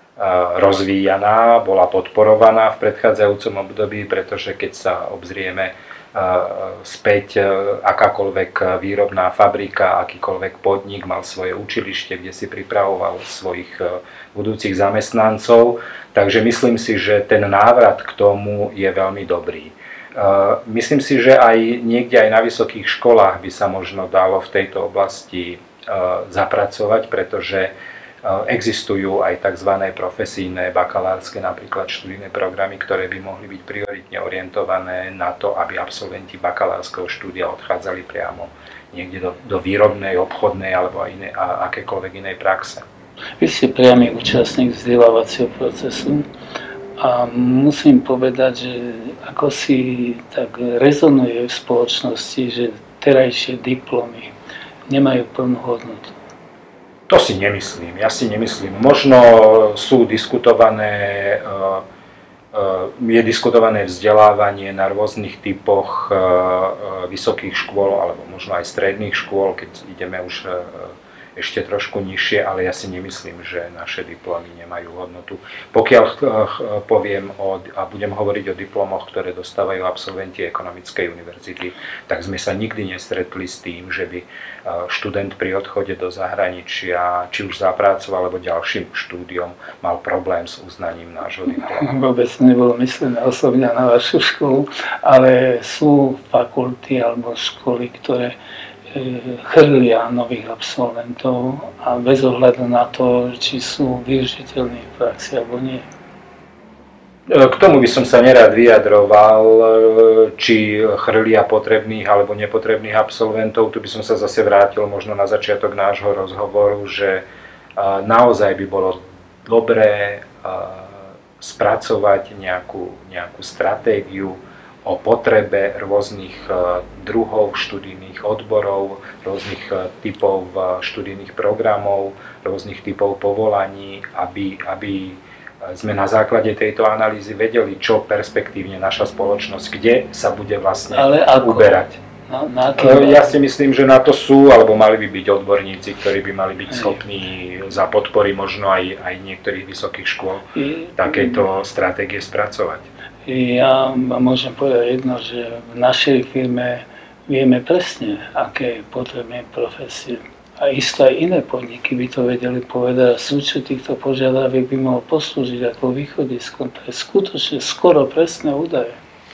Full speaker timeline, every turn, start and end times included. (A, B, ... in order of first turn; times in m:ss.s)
0:00.2-0:42.8 A
0:43.4-0:46.3 B
0:47.0-0:54.3 B
0:54.9-0:56.1 B
0:57.1-1:01.8 A
1:02.5-1:31.9 A
1:31.8-1:38.3 B
1:38.9-1:45.8 B
1:47.3-1:57.2 A
1:57.8-2:22.0 A
2:20.9-2:23.4 B
2:22.8-2:32.9 A
2:30.5-2:31.3 B
2:33.2-2:49.0 B